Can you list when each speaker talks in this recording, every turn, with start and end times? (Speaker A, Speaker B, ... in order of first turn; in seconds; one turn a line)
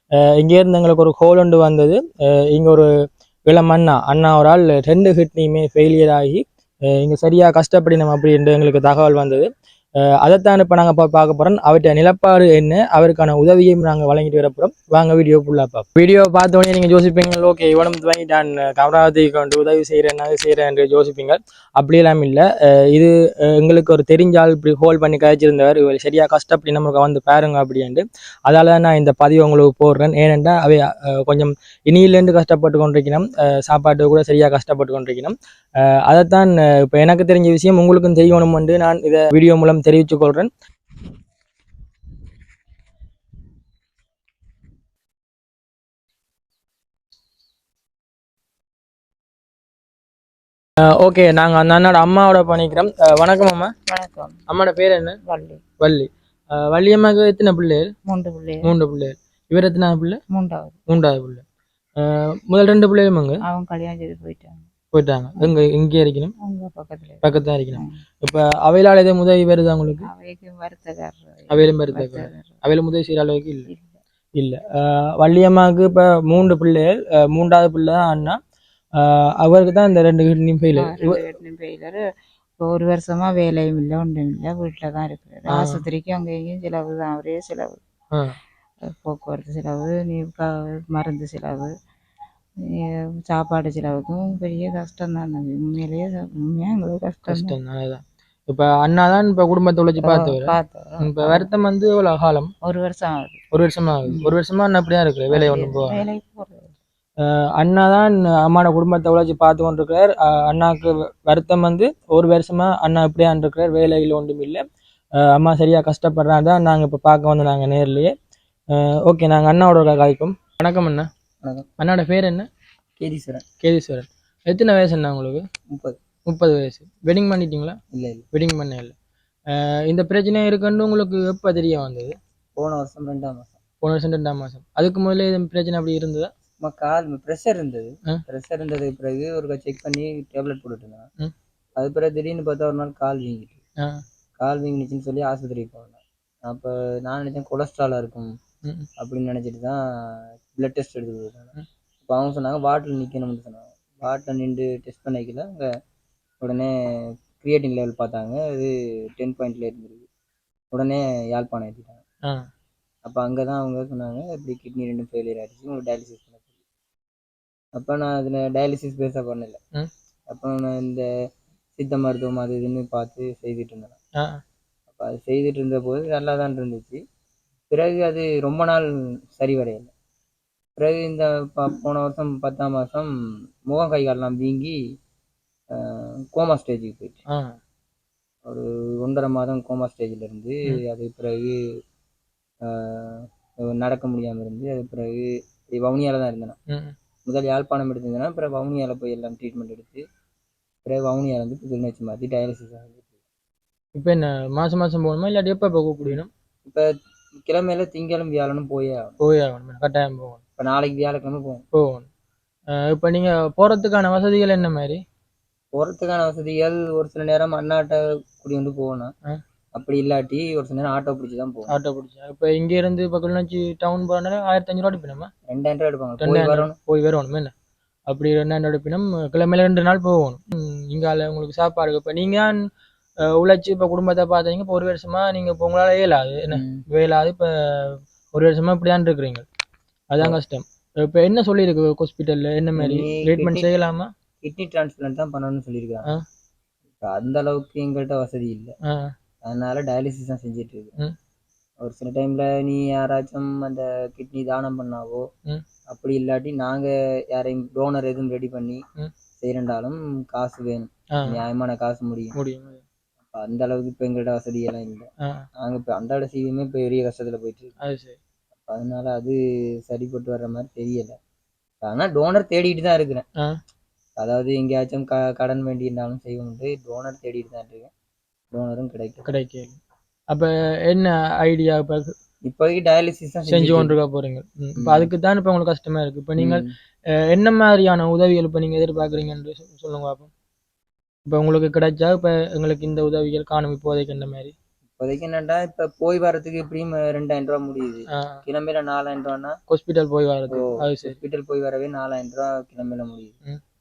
Speaker A: 0.2-2.9
Speaker A: 3.5-9.5
Speaker A: 10.0-40.5
Speaker A: 50.8-53.7
Speaker B: 53.9-54.4
Speaker A: 54.5-55.2
Speaker B: 55.2-55.6
Speaker A: 55.8-57.9
Speaker B: 58.1-58.7
Speaker A: 58.6-60.2
Speaker B: 60.3-60.8
Speaker A: 60.9-61.4
Speaker A: 62.0-63.4
Speaker B: 63.5-64.7
Speaker A: 64.9-66.3
Speaker B: 66.4-68.0
Speaker A: 67.2-70.1
Speaker B: 70.0-72.5
Speaker A: 71.5-73.7
Speaker B: 73.7-74.0
Speaker A: 74.4-78.4
Speaker A: 79.0-81.2
Speaker B: 80.8-82.0
Speaker B: 82.6-87.8
Speaker A: 85.5-85.8
Speaker B: 88.8-91.7
Speaker B: 92.7-97.6
Speaker A: 97.2-102.5
Speaker B: 100.0-101.5
Speaker B: 102.6-103.4
Speaker A: 103.5-106.0
Speaker B: 105.3-106.7
Speaker A: 107.2-114.6
Speaker A: 115.2-118.2
Speaker A: 118.7-121.1
Speaker C: 121.4-121.7
Speaker A: 121.8-122.5
Speaker C: 123.0-123.5
Speaker A: 123.6-125.5
Speaker C: 125.7-126.0
Speaker A: 126.3-127.8
Speaker C: 127.9-128.2
Speaker A: 128.3-128.9
Speaker A: 129.5-132.2
Speaker C: 132.6-133.6
Speaker A: 133.8-136.3
Speaker C: 136.6-141.1
Speaker C: 141.8-143.6
Speaker C: 144.4-148.3
Speaker C: 149.0-155.7
Speaker C: 156.4-160.1
Speaker C: 160.7-162.0
Speaker C: 163.1-166.5
Speaker C: 167.8-169.6
Speaker C: 170.3-171.1
Speaker C: 171.8-174.0
Speaker C: 174.9-177.0
Speaker C: 177.7-179.9
Speaker C: 180.8-183.1
Speaker C: 183.7-184.8
Speaker C: 185.7-187.2
Speaker A: 187.3-187.6
Speaker C: 188.5-191.6
Speaker C: 192.6-196.6
Speaker A: 196.7-196.9
Speaker C: 197.2-200.0
Speaker C: 200.8-203.1
Speaker A: 203.9-206.3
Speaker C: 206.1-206.9
Speaker C: 207.4-209.2
Speaker A: 209.2-210.4
Speaker C: 210.6-211.7
Speaker A: 211.7-212.1
Speaker A: 212.8-215.0
Speaker C: 215.7-219.1
Speaker C: 219.8-221.7
Speaker A: 221.7-225.3
Speaker C: 225.5-226.8
Speaker A: 226.2-227.5
Speaker A: 228.1-232.6
Speaker A: 233.2-239.4
Speaker C: 236.5-236.9
Speaker A: 240.1-244.1
Speaker C: 242.8-243.7
Speaker C: 244.4-246.1
Speaker C: 247.0-248.8
Speaker A: 248.9-249.1
Speaker C: 249.4-250.9
Speaker C: 251.8-255.2
Speaker C: 255.9-258.8
Speaker C: 259.4-262.4
Speaker A: 261.2-261.4
Speaker A: 262.4-262.8
Speaker C: 263.3-267.8
Speaker A: 267.8-268.2
Speaker C: 268.6-271.2
Speaker C: 271.8-273.2
Speaker C: 274.2-277.9
Speaker C: 278.5-279.3
Speaker A: 279.2-279.8
Speaker A: 280.3-282.1
Speaker C: 282.4-283.9
Speaker A: 283.5-290.3
Speaker C: 284.8-285.1
Speaker C: 286.4-286.7
Speaker A: 291.3-294.6
Speaker C: 295.0-299.6
Speaker A: 298.1-298.4
Speaker A: 299.7-301.2
Speaker C: 300.5-303.4